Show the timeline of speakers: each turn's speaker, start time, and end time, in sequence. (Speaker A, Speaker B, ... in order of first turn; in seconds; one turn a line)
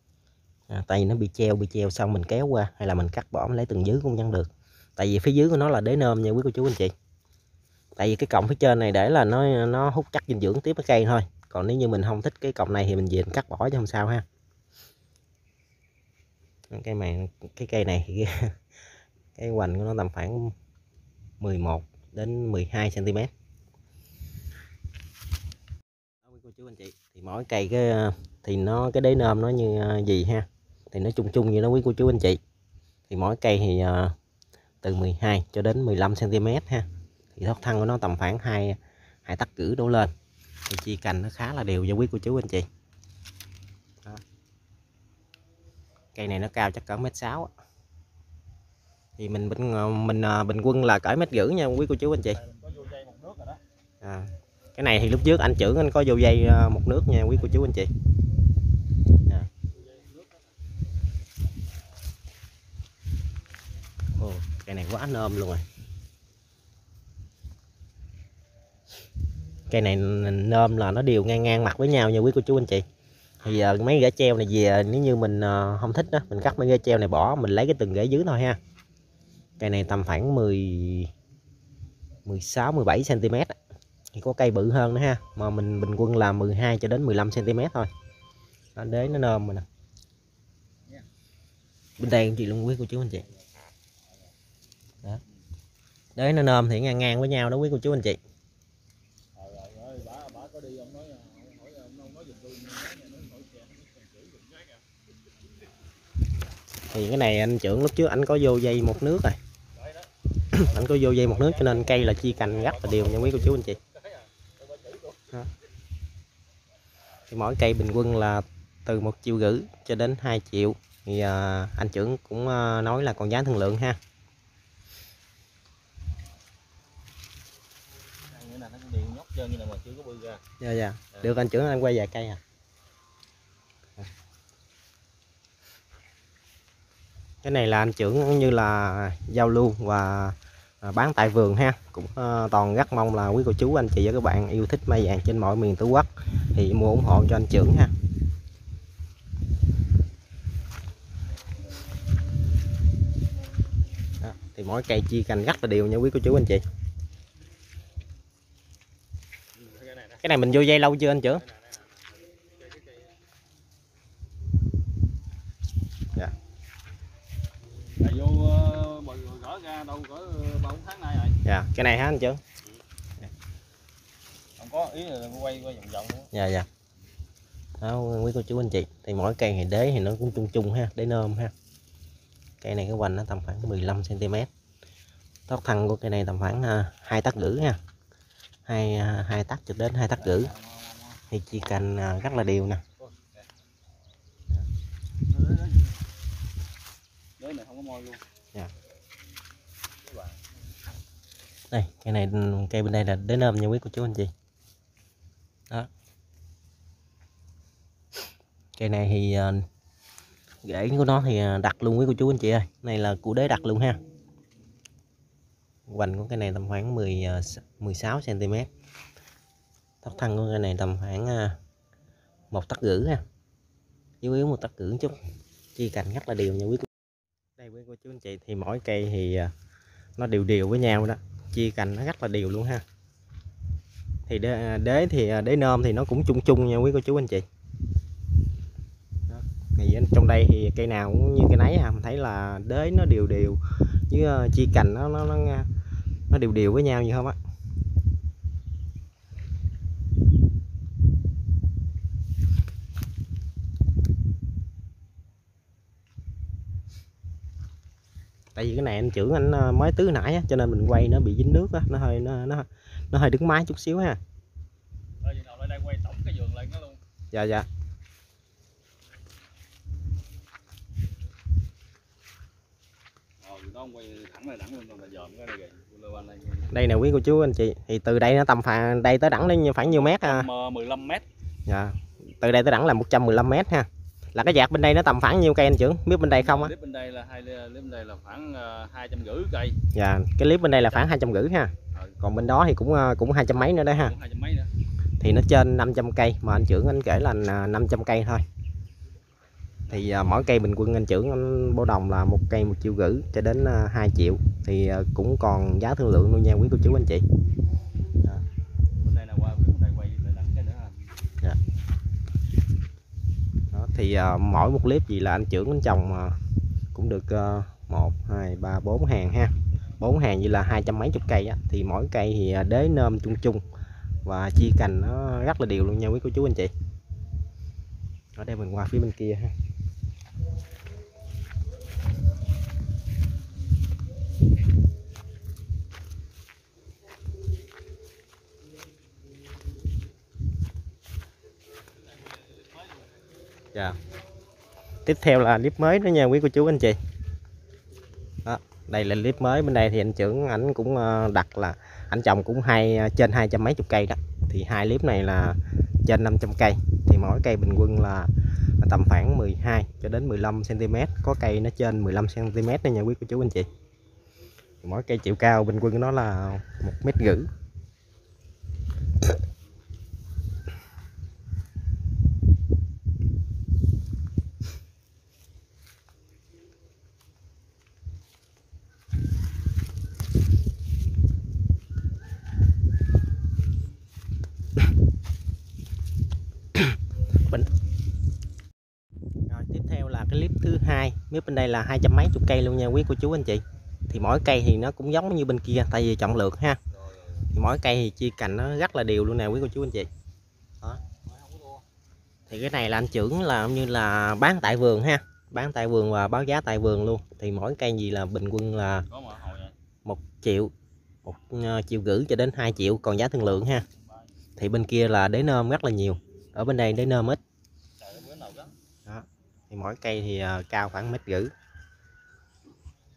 Speaker A: 0.7-6.9
Speaker A: 8.0-14.2
Speaker A: 16.7-18.5
Speaker A: 19.4-20.5
Speaker A: 21.4-23.3
Speaker A: 26.2-32.4
Speaker A: 33.1-34.1
Speaker A: 34.8-40.1
Speaker A: 40.7-42.7
Speaker A: 46.1-47.5
Speaker A: 49.2-52.4
Speaker B: 52.4-53.6
Speaker A: 54.0-57.9
Speaker B: 59.7-60.4
Speaker A: 64.2-65.6
Speaker A: 69.7-72.8
Speaker A: 73.4-78.6
Speaker A: 79.6-81.1
Speaker A: 82.2-83.5
Speaker A: 84.1-87.9
Speaker A: 88.8-89.7
Speaker A: 92.0-93.2
Speaker A: 96.2-98.2
Speaker B: 99.3-104.8
Speaker A: 106.9-109.3
Speaker B: 109.8-110.1
Speaker A: 110.5-113.8
Speaker B: 110.6-115.3
Speaker A: 117.3-124.0
Speaker B: 128.2-130.4
Speaker A: 130.6-132.4
Speaker A: 137.4-147.9
Speaker A: 154.2-156.6
Speaker B: 159.5-160.2
Speaker A: 160.2-161.4
Speaker B: 161.4-163.2
Speaker B: 168.0-171.4
Speaker A: 171.4-172.4
Speaker B: 174.6-176.3
Speaker A: 176.3-176.7
Speaker A: 177.8-181.5
Speaker A: 182.6-184.5
Speaker A: 185.5-187.8
Speaker A: 188.7-190.5
Speaker B: 190.2-191.2
Speaker A: 191.3-192.8
Speaker B: 193.0-193.4
Speaker B: 195.3-196.0
Speaker B: 197.4-198.2
Speaker B: 200.0-200.4
Speaker A: 201.7-204.3
Speaker A: 208.8-209.7
Speaker A: 210.6-214.0
Speaker A: 215.9-218.7
Speaker A: 220.0-221.6
Speaker A: 222.5-223.2
Speaker A: 224.2-225.2
Speaker A: 225.8-226.9
Speaker A: 227.6-229.5
Speaker A: 230.2-232.8
Speaker A: 234.3-237.4
Speaker A: 239.3-245.7
Speaker A: 246.3-247.4
Speaker A: 258.6-264.2
Speaker B: 265.2-267.0
Speaker A: 267.3-267.7
Speaker B: 273.4-276.7
Speaker A: 276.7-280.5
Speaker B: 279.8-281.2
Speaker A: 281.7-286.7
Speaker B: 286.3-289.8
Speaker A: 289.9-294.1
Speaker B: 293.9-294.7
Speaker A: 295.2-298.4
Speaker A: 299.9-307.2
Speaker B: 309.0-311.1
Speaker A: 313.7-316.4
Speaker A: 316.9-323.6
Speaker A: 324.2-326.7
Speaker A: 328.4-329.5
Speaker B: 342.0-343.3
Speaker A: 345.0-347.0
Speaker A: 348.4-363.7
Speaker A: 364.8-367.5
Speaker A: 389.5-396.8
Speaker A: 397.5-400.1
Speaker B: 401.2-401.8
Speaker A: 402.5-409.1
Speaker B: 409.1-409.7
Speaker A: 410.0-410.7
Speaker A: 411.2-413.9
Speaker B: 413.9-414.3
Speaker A: 414.6-417.4
Speaker B: 418.0-418.7
Speaker A: 419.1-421.5